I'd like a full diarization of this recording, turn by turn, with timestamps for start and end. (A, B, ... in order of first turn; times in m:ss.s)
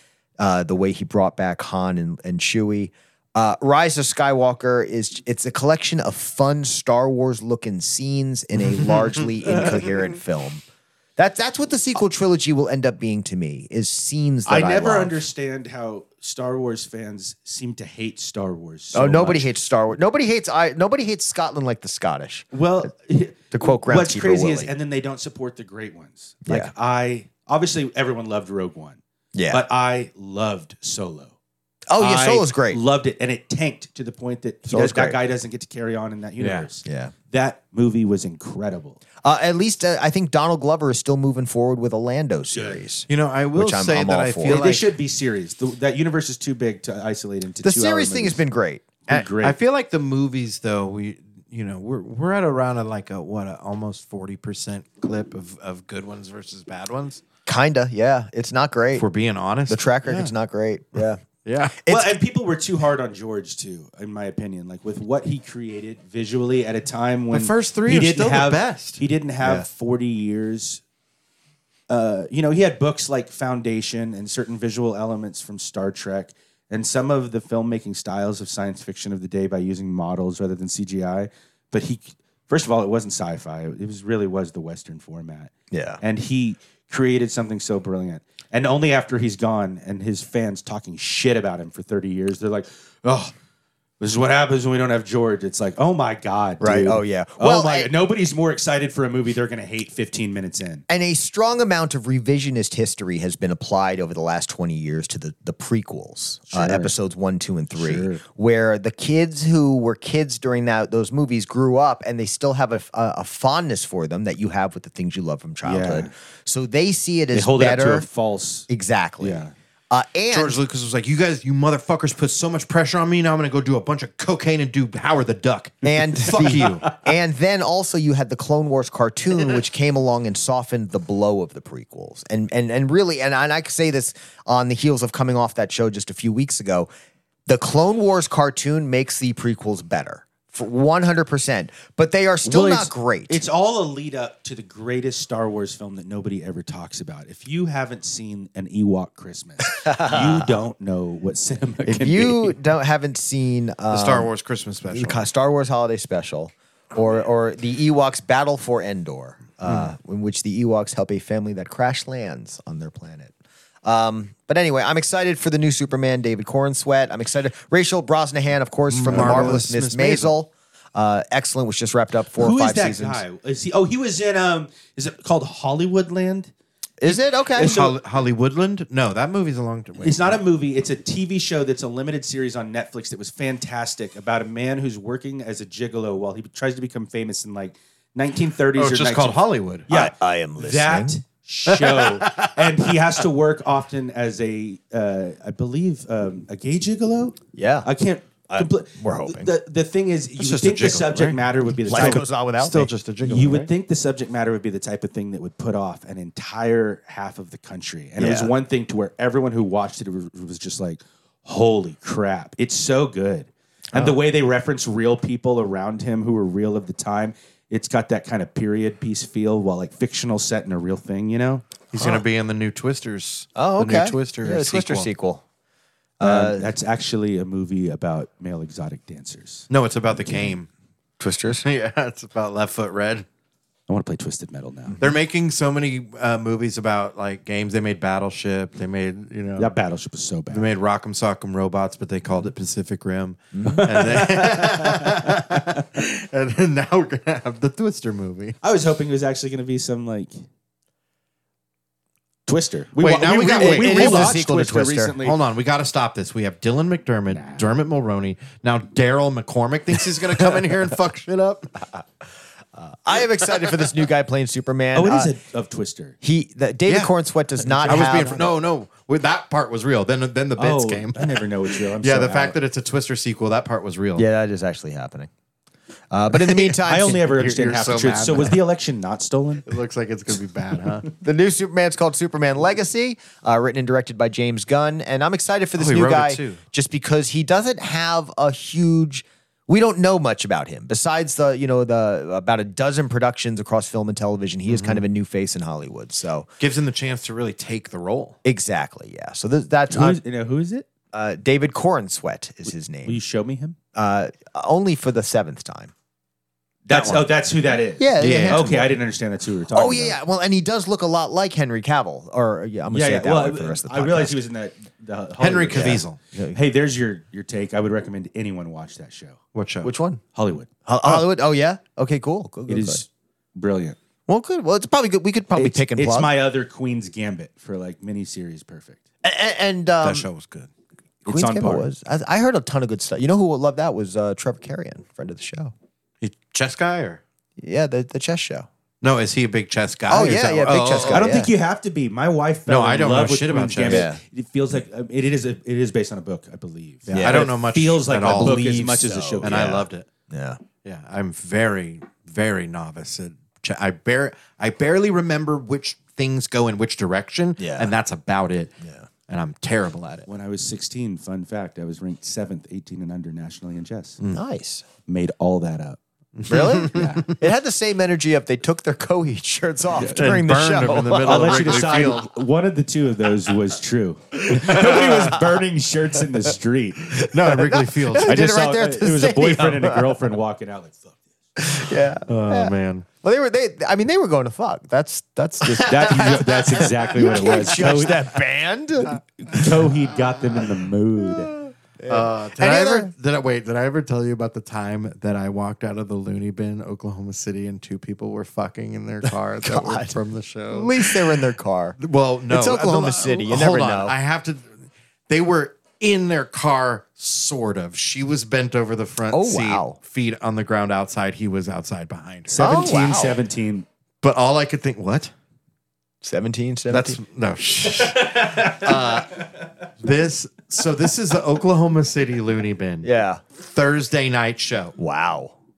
0:00.4-0:10.6 A
0:08.8-0:09.7 B
0:11.2-0:15.2 A
0:14.4-0:19.5 C
0:18.9-0:22.8 A
0:22.5-0:31.3 C
0:23.5-0:24.7 A
0:26.4-0:26.7 A
0:29.3-0:29.6 A
0:31.9-0:32.8 A
0:32.0-0:39.0 C
0:34.7-0:35.2 A
0:36.4-0:36.7 B
0:36.8-0:37.1 A
0:39.2-0:44.6 A
0:42.5-0:42.8 C
0:43.1-0:44.8 B
0:44.4-0:48.4 C
0:47.6-0:48.9 A
0:49.0-0:49.6 C
0:49.1-0:57.2 B
0:57.4-0:59.0 A
0:58.9-1:00.3 B
0:59.7-1:01.2 A
1:01.4-1:01.8 B
1:01.8-1:02.1 A
1:01.9-1:10.8 C
1:07.3-1:09.0 B
1:11.9-1:33.3 C
1:25.7-1:26.0 A
1:34.0-1:40.8 C
1:36.6-1:37.9 A
1:40.9-1:58.0 A
1:46.5-1:46.9 C
1:47.7-1:48.2 C
1:55.6-1:56.1 C
1:57.3-1:58.7 C
1:58.7-2:00.6 A
1:59.2-1:59.5 C
2:00.3-2:06.9 B
2:05.8-2:16.9 A
2:17.5-2:23.4 A
2:22.4-2:32.5 C
2:29.7-2:30.6 A
2:31.8-2:34.3 A
2:33.9-2:35.2 B
2:34.9-2:43.3 A
2:39.6-2:39.9 B
2:43.8-2:53.2 A
2:48.9-2:50.3 B
2:49.1-2:49.6 C
2:52.4-2:56.5 C
2:57.0-2:57.8 A
2:57.1-2:57.9 C
2:57.6-3:00.4 B
3:00.0-3:22.3 C
3:08.7-3:09.9 B
3:09.9-3:11.2 A
3:11.7-3:13.0 B
3:17.5-3:17.9 A
3:18.5-3:19.5 A
3:20.4-3:23.7 B
3:21.9-3:22.9 A
3:23.2-3:41.6 C
3:28.2-3:28.5 A
3:41.9-3:45.1 B
3:42.0-3:42.2 A
3:43.6-3:45.4 A
3:46.2-3:46.7 A
3:46.2-3:49.7 C
3:49.7-3:50.7 B
3:51.2-3:51.6 A
3:51.4-3:53.2 B
3:53.9-3:55.0 C
3:55.0-3:59.7 B
3:59.6-4:00.7 C
4:00.5-4:08.6 B
4:03.5-4:04.4 A
4:03.7-4:05.8 C
4:08.6-4:10.3 C
4:12.5-4:15.4 C
4:13.0-4:14.4 B
4:13.5-4:15.2 A
4:15.2-4:21.8 B
4:17.3-4:17.6 C
4:23.0-4:25.3 A
4:24.9-4:26.2 C
4:26.2-4:28.5 A
4:26.9-4:34.2 B
4:27.9-4:28.3 C
4:30.6-4:32.6 C
4:34.2-4:35.3 A
4:36.1-4:37.2 A
4:36.5-4:38.6 B
4:36.8-4:39.7 C
4:39.6-4:41.1 B
4:41.2-4:56.5 A
4:45.8-4:46.6 B
4:54.7-4:55.0 B
4:56.6-4:58.4 B
4:58.4-5:00.2 A
4:59.9-5:00.9 C
5:01.1-5:03.2 A
5:03.0-5:03.8 C
5:03.9-5:05.9 A
5:06.8-5:10.2 C
5:06.9-5:07.2 B
5:08.0-5:08.9 A
5:08.2-5:08.9 B
5:09.7-5:14.4 A
5:12.9-5:19.4 C
5:15.4-5:16.2 B
5:15.7-5:16.6 A
5:19.5-5:19.9 B
5:19.8-5:20.2 A
5:20.3-5:21.1 C
5:20.8-5:23.0 A
5:22.7-5:24.0 C
5:24.3-5:26.3 A
5:25.5-5:29.0 C
5:29.2-5:30.3 A
5:30.0-5:30.7 B
5:31.2-5:31.9 C
5:31.3-5:35.7 A
5:36.2-5:37.2 B
5:37.6-5:38.7 A
5:39.0-5:41.3 B
5:40.1-5:41.5 A
5:41.0-5:49.7 C
5:42.7-5:44.1 B
5:43.8-5:44.2 A
5:47.1-5:47.5 A
5:47.2-5:48.7 B
5:48.2-5:50.6 A
5:49.4-5:50.1 B
5:50.8-5:58.7 B
5:57.6-5:57.9 A
5:59.3-6:00.3 B
6:00.3-6:04.2 C
6:04.3-6:04.8 A
6:05.0-6:06.0 C
6:06.4-6:07.3 B
6:06.5-6:12.1 A
6:06.5-6:07.3 C
6:10.0-6:10.3 C
6:10.0-6:12.3 B
6:11.2-6:17.1 C
6:14.5-6:15.4 B
6:17.1-6:20.1 A
6:17.2-6:18.4 B
6:18.2-6:21.2 C
6:21.6-6:29.7 A
6:22.3-6:23.0 B
6:25.8-6:28.2 C
6:25.8-6:26.1 B
6:29.4-6:31.5 C
6:31.4-6:33.1 A
6:32.1-6:41.4 B
6:39.3-6:40.2 A
6:40.7-6:42.0 A
6:42.0-6:52.9 B
6:42.5-6:44.1 A
6:49.3-6:50.0 A
6:52.5-6:53.8 C
6:52.6-6:53.4 A
6:54.2-6:55.3 B
6:56.2-6:57.2 A
6:56.9-6:59.4 B
7:00.0-7:05.0 B
7:03.0-7:03.4 A
7:05.0-7:05.5 A